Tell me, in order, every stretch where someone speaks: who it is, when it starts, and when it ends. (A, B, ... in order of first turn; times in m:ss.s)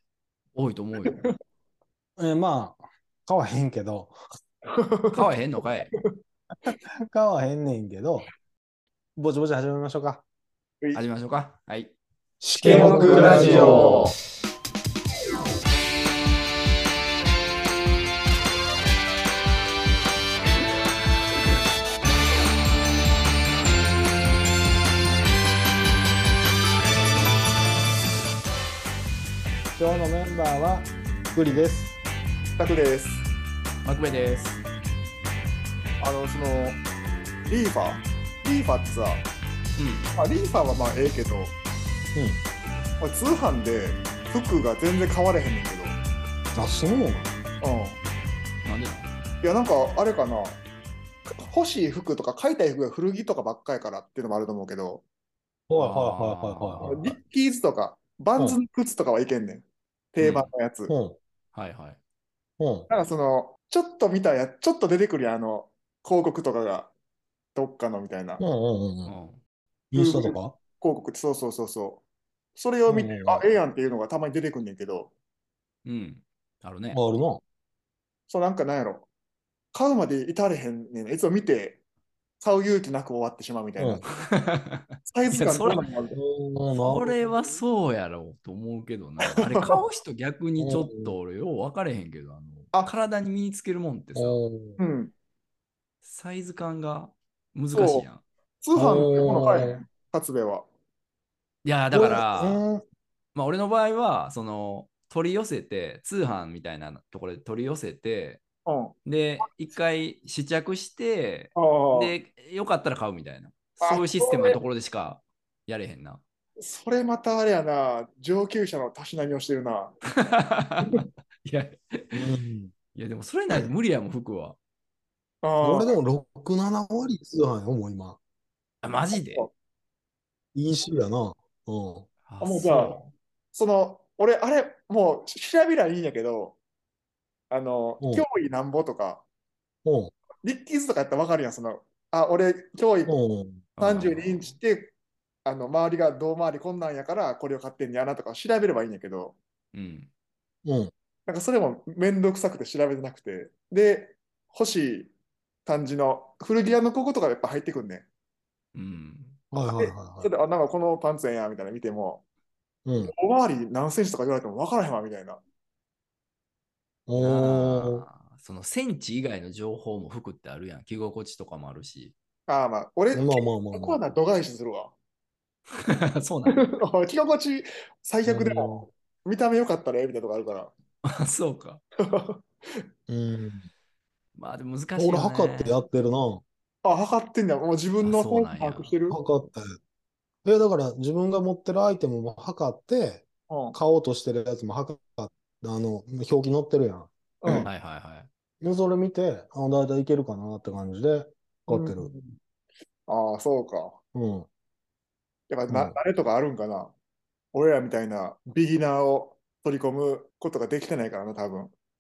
0:00.6-0:01.2 A
0:02.2-0:04.1 B
0:04.6-0:05.3 C
0:05.1-0:05.9 A
0:06.7-0:08.3 B
0:09.2-0:10.2 B
0:10.9-0:11.9 A
0:12.4-0:14.0 B
0:12.6-0:14.2 A
0:12.6-0:14.1 C
0:29.8-0:31.9 B
0:32.6-0:33.2 C
0:33.8-0:34.6 A
0:36.0-0:36.8 C
0:37.5-0:39.2 C
0:39.8-0:40.1 A
0:40.2-0:41.5 C
0:43.0-0:46.0 C
0:46.6-0:47.3 B
0:47.6-0:48.0 C
0:48.6-0:49.1 A
0:49.4-0:50.6 C
0:51.3-0:55.0 C
0:55.7-0:57.2 B
0:55.7-0:57.0 A
0:56.8-1:00.9 C
1:00.2-1:00.5 A
1:00.9-1:01.2 B
1:01.5-1:02.0 A
1:02.6-1:02.9 B
1:02.9-1:06.9 C
1:07.6-1:08.4 C
1:08.4-1:09.1 B
1:09.1-1:09.4 A
1:09.9-1:10.6 B
1:09.9-1:12.0 C
1:12.6-1:15.1 C
1:12.9-1:13.5 B
1:15.8-1:17.0 A
1:16.9-1:17.4 B
1:18.3-1:19.1 C
1:19.7-1:21.8 C
1:22.4-1:24.0 C
1:24.1-1:25.8 A
1:25.0-1:26.2 C
1:26.1-1:27.2 B
1:26.8-1:34.4 A
1:29.3-1:29.8 C
1:30.6-1:31.1 B
1:34.1-1:34.8 B
1:34.8-1:35.1 C
1:36.0-1:38.2 A
1:37.7-1:38.1 C
1:38.6-1:40.6 C
1:38.8-1:39.8 B
1:39.3-1:39.7 A
1:41.6-1:42.6 A
1:41.9-1:42.8 B
1:43.3-1:48.4 A
1:48.6-1:49.4 C
1:49.0-1:56.2 A
1:51.6-1:52.1 C
1:53.8-1:54.6 C
1:56.6-2:00.0 C
2:00.1-2:02.2 A
2:02.1-2:02.7 B
2:02.9-2:04.6 A
2:05.4-2:06.0 C
2:05.6-2:08.2 B
2:08.8-2:09.5 A
2:09.1-2:09.5 C
2:10.6-2:12.1 B
2:12.3-2:13.1 A
2:12.4-2:13.0 C
2:13.5-2:16.6 C
2:17.5-2:19.2 C
2:19.8-2:20.1 B
2:20.4-2:23.2 C
2:23.1-2:23.6 B
2:23.8-2:24.6 A
2:23.8-2:24.9 C
2:25.4-2:29.4 C
2:29.7-2:30.1 A
2:30.6-2:30.9 B
2:31.3-2:35.1 C
2:35.7-2:38.1 C
2:38.7-2:39.4 A
2:39.5-2:40.3 B
2:39.8-2:42.2 C
2:42.8-2:43.1 B
2:43.0-2:45.4 C
2:47.1-2:48.1 B
2:47.2-2:52.2 A
2:52.5-2:54.9 C
2:53.1-2:54.1 B
2:55.7-2:56.6 A
2:56.5-2:58.7 C
2:58.2-2:58.9 B
2:59.2-3:00.7 C
3:01.0-3:01.8 A
3:02.0-3:02.8 C
3:03.1-3:03.7 B
3:04.3-3:05.8 A
3:05.0-3:06.4 B
3:06.8-3:09.2 C
3:08.0-3:08.9 A
3:09.1-3:09.7 B
3:10.4-3:17.7 B
3:13.5-3:13.8 C
3:17.4-3:17.7 C
3:17.6-3:18.3 A
3:18.6-3:22.1 B
3:21.7-3:22.4 C
3:23.1-3:24.0 C
3:24.1-3:24.5 B
3:25.5-3:26.9 C
3:25.7-3:26.0 B
3:27.5-3:31.7 C